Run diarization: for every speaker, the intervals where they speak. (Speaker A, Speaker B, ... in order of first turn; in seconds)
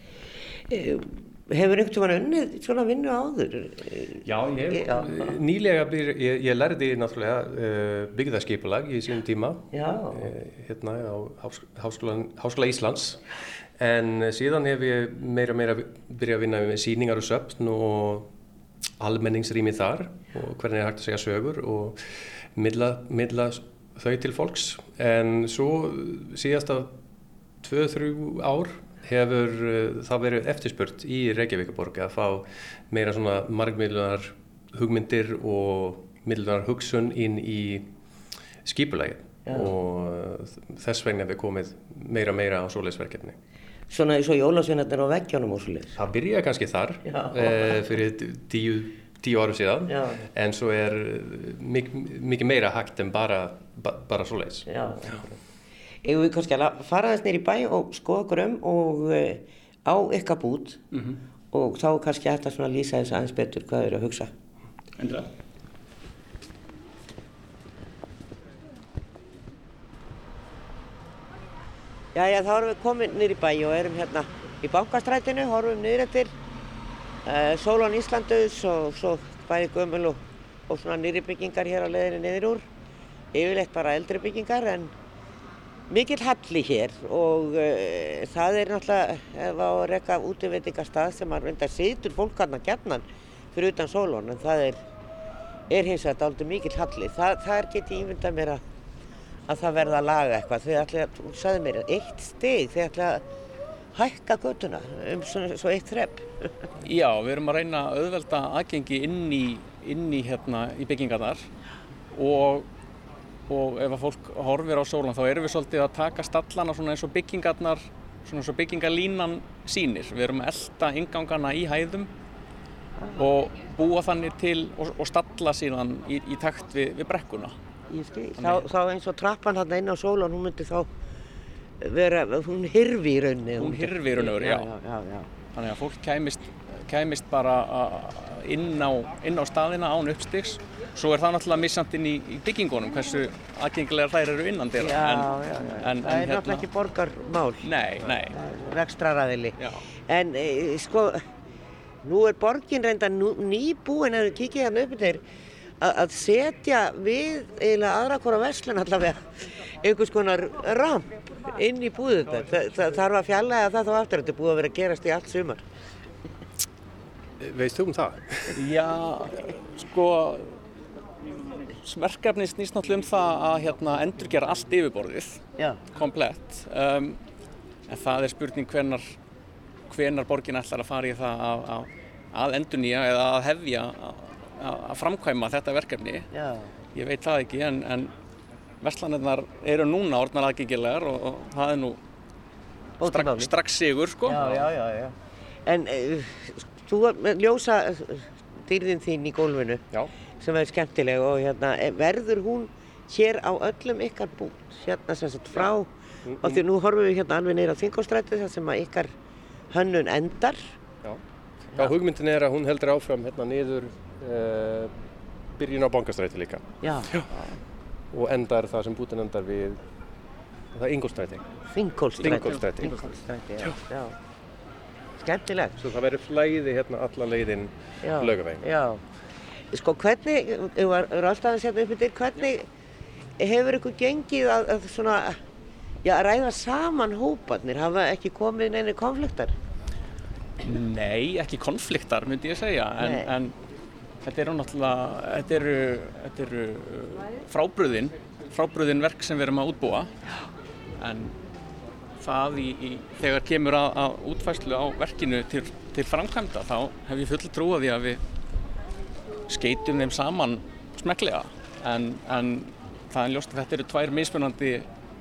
Speaker A: 0.7-5.3, 9.7-10.3, 43.9-46.0, 47.1-47.8, 49.9-50.2, 54.7-55.3, 56.0-60.8, 61.5-64.3, 72.1-76.3, 77.2-82.7, 83.3-84.9, 85.9-94.8, 95.7-98.6, 99.5-103.2, 104.0-106.7, 127.9-130.9, 131.8-135.3, 144.8-151.2, 152.0-155.2, 155.8-165.6, 186.3-186.7, 193.0-193.5, 194.2-199.8, 200.4-205.9, 206.4-209.1, 209.7-210.7, 216.8-217.3, 221.7-224.2, 225.2-225.8, 228.0-229.0, 229.7-232.7, 233.4-235.4, 236.0-239.5, 243.0-243.3
Speaker B: 4.2-13.2, 13.8-18.3, 19.0-22.0, 22.6-27.0, 27.6-37.9, 38.6-43.4, 46.0-55.2, 167.4-168.6, 206.3-206.6, 211.8-214.9, 215.6-216.7, 218.1-219.8, 220.7-221.5, 222.2-223.0, 225.8-228.7
Speaker C: 65.0-65.3, 106.8-111.5, 112.1-112.7, 113.5-122.1, 123.2-127.5, 128.4-128.7, 133.6-134.7, 135.5-146.7, 147.6-148.4, 168.6-170.6, 171.8-177.2, 177.9-179.2, 179.9-186.3, 186.9-188.1, 188.8-192.0, 193.0-194.7, 240.6-243.6, 244.2-250.1, 251.0-251.4, 252.2-258.2, 259.5-264.9